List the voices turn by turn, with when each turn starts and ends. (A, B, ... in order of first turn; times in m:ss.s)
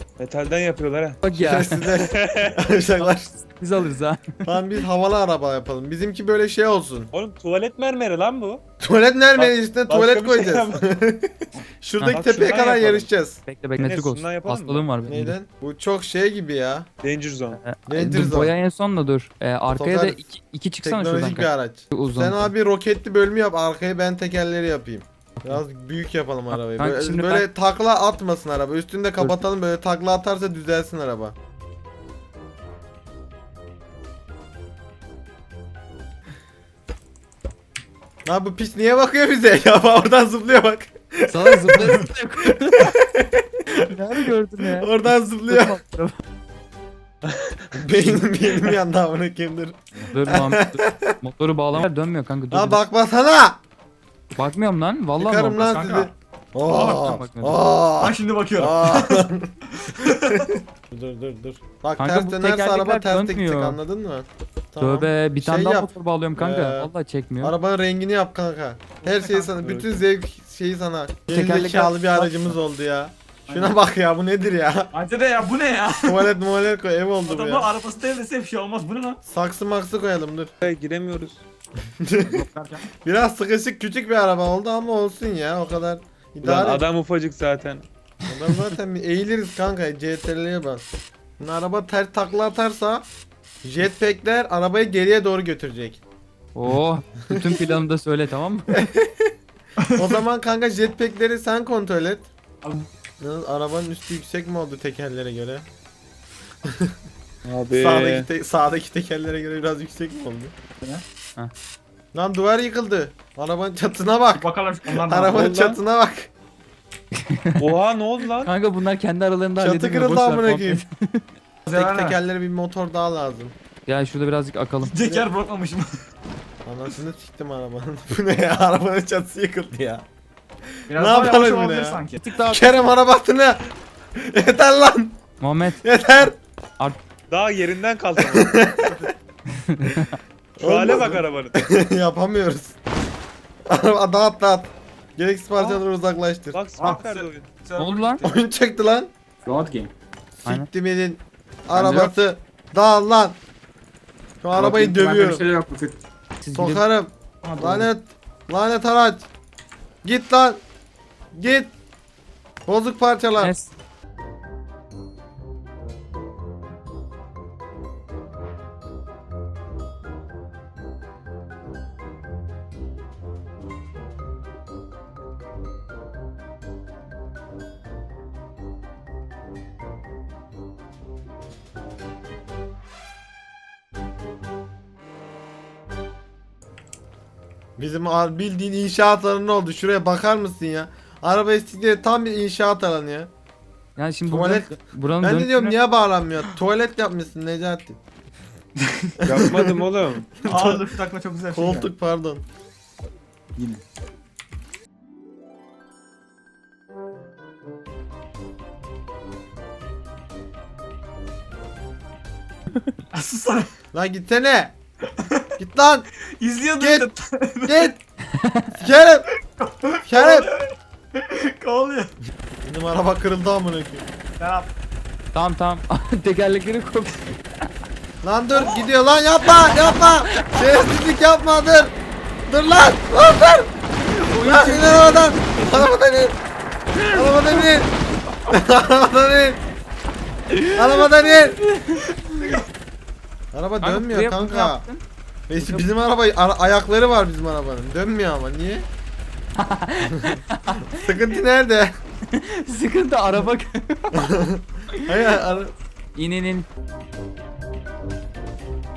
0:00.2-0:01.2 A
0:01.2-0:01.9 B
0:01.3-0:03.3 C
0:02.0-0:02.7 A
0:03.0-0:04.5 B
0:04.4-0:07.1 C
0:07.1-0:08.6 A
0:08.8-0:13.4 C
0:09.4-0:10.8 A
0:12.0-0:12.2 B
0:12.1-0:13.1 A
0:13.5-0:15.4 B
0:13.8-0:14.8 A
0:15.0-0:16.9 C
0:17.0-0:17.6 A
0:17.6-0:22.5 B
0:17.9-0:18.5 C
0:19.7-0:20.2 C
0:20.8-0:31.3 C
0:26.5-0:27.5 B
0:38.2-0:42.0 C
0:41.3-0:42.9 B
0:43.7-0:46.2 B
0:44.8-0:45.8 C
0:47.2-0:47.7 A
0:47.7-0:51.1 C
0:50.1-0:52.8 B
0:52.5-0:53.6 C
0:54.4-0:55.7 B
0:55.2-0:59.5 C
0:55.6-0:56.1 D
0:56.7-0:57.6 B
0:58.0-1:00.6 D
1:00.2-1:06.9 C
1:02.0-1:03.8 B
1:04.8-1:07.6 B
1:07.4-1:14.9 C
1:09.0-1:09.5 D
1:09.6-1:10.0 A
1:11.3-1:12.5 B
1:13.5-1:13.8 D
1:14.9-1:16.3 D
1:16.0-1:17.7 C
1:17.2-1:19.2 D
1:19.2-1:20.5 C
1:20.6-1:21.4 A
1:22.0-1:22.4 C
1:22.2-1:22.9 D
1:23.0-1:26.9 C
1:26.4-1:27.8 A
1:28.3-1:30.8 C
1:31.4-1:33.0 C
1:33.6-1:36.0 C
1:36.6-1:38.8 B
1:38.7-1:39.3 C
1:39.8-1:40.1 D
1:39.9-1:42.3 C
1:42.6-1:42.9 D
1:43.2-1:45.7 C
1:46.7-1:47.0 C
1:47.4-1:48.3 A
1:47.7-1:50.5 C
1:52.1-1:56.3 C
1:54.4-1:55.7 D
1:55.5-1:55.8 A
1:57.3-1:57.6 B
1:57.6-1:58.5 A
1:58.4-2:01.2 B
1:59.6-2:00.8 C
2:01.7-2:02.2 D
2:01.7-2:03.5 C
2:03.8-2:04.9 B
2:04.8-2:05.9 D
2:05.0-2:05.3 C
2:06.6-2:10.0 C
2:10.9-2:12.2 D
2:10.9-2:13.6 C
2:12.2-2:12.7 B
2:14.2-2:15.2 C
2:15.4-2:15.8 B
2:15.8-2:16.4 C
2:17.3-2:18.6 A
2:18.2-2:19.0 C
2:18.8-2:19.1 D
2:19.6-2:20.2 B
2:20.6-2:21.5 A
2:20.6-2:22.8 C
2:23.7-2:26.6 C
2:26.5-2:27.5 A
2:26.8-2:28.3 D
2:27.8-2:28.2 B
2:28.2-2:29.1 C
2:29.4-2:29.9 D
2:30.4-2:33.4 C
2:31.8-2:32.1 D
2:34.4-2:35.4 C
2:34.5-2:36.0 D
2:36.4-2:36.8 B
2:36.5-2:39.3 C
2:37.4-2:37.9 D
2:40.0-2:40.6 C
2:41.3-2:41.7 C
2:42.7-2:43.5 C
2:43.4-2:43.7 B
3:07.8-3:13.3 C
3:14.0-3:15.8 B
3:14.3-3:18.0 C
3:19.2-3:19.8 C
3:19.2-3:20.4 A
3:20.4-3:21.9 D
3:20.5-3:20.9 C
3:21.5-3:22.4 C
3:23.6-3:23.8 D
3:33.1-3:33.7 D
3:33.9-3:34.8 C
3:35.1-3:35.5 D
3:35.6-3:36.1 C
3:36.4-3:37.9 D
3:36.8-3:37.1 C
3:37.7-3:38.0 C
3:38.4-3:38.7 B
3:38.8-3:39.3 C
3:39.5-3:42.2 D
3:40.1-3:40.5 C
3:42.6-3:44.1 C
3:44.4-3:44.7 D
3:45.3-3:47.3 B
3:48.2-3:51.9 C
3:48.5-3:48.8 D
3:52.5-3:53.7 C
3:54.1-3:55.8 B
3:54.4-3:56.4 C
3:57.1-3:57.9 C
3:57.2-3:57.6 B
3:58.5-3:59.6 C
4:00.5-4:02.5 B
4:00.7-4:01.6 C
4:03.5-4:04.8 C
4:03.8-4:05.0 B
4:05.5-4:08.9 C
4:05.6-4:05.9 B
4:09.6-4:10.8 B
4:10.9-4:11.9 C
4:12.3-4:14.3 B
4:14.2-4:15.7 C
4:16.1-4:16.6 B